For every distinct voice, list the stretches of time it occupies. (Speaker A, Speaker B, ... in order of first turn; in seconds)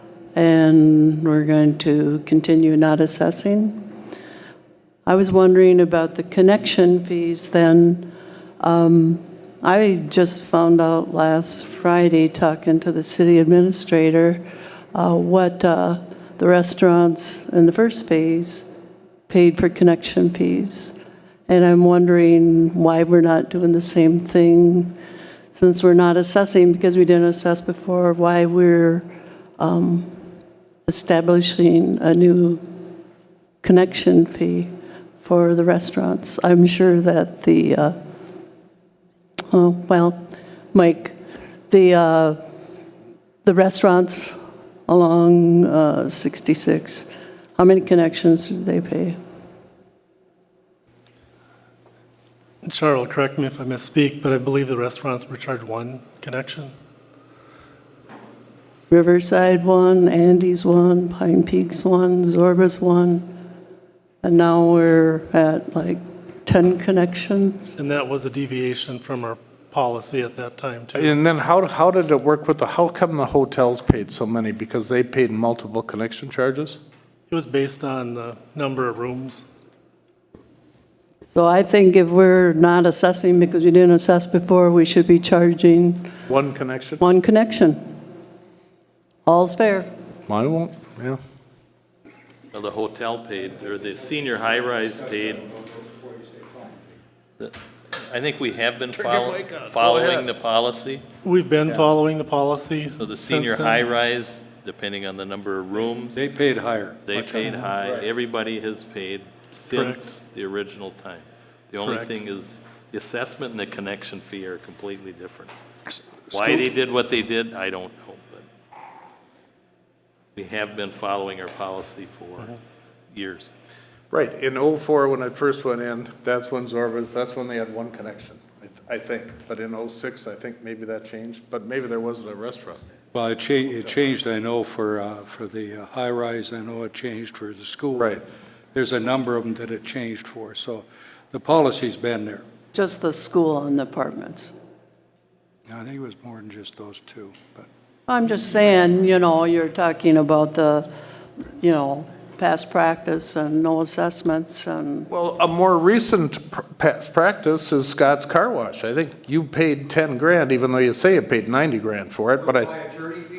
Speaker A: 0.3-3.8, 5.1-8.1, 8.6-14.4, 14.9-18.6, 19.3-20.9, 21.5-24.9, 25.5-29.1, 29.6-30.1, 30.9-32.6, 33.6-34.7, 35.2-38.0, 39.5-40.2, 40.7-41.2, 41.7-42.4, 43.4-44.4, 44.9-49.2, 58.9-63.3, 64.2-67.8, 81.3-86.1, 87.0-87.8, 89.3-89.9, 142.7-144.5, 148.1-150.9, 151.6-155.1
Speaker B: 52.6-56.7, 67.8-71.1, 77.3-79.5, 101.2-103.8, 109.7-110.0
Speaker C: 71.0-76.8, 86.3-87.0, 90.3-91.2, 111.8-112.1, 124.1-132.8, 155.1-162.8
Speaker D: 92.5-95.5, 97.4-101.0, 103.0-106.2, 107.0-115.5, 116.3-118.5, 120.4-122.6, 123.1-123.5
Speaker E: 106.1-107.7, 116.3-116.6, 133.1-142.5, 145.7-147.7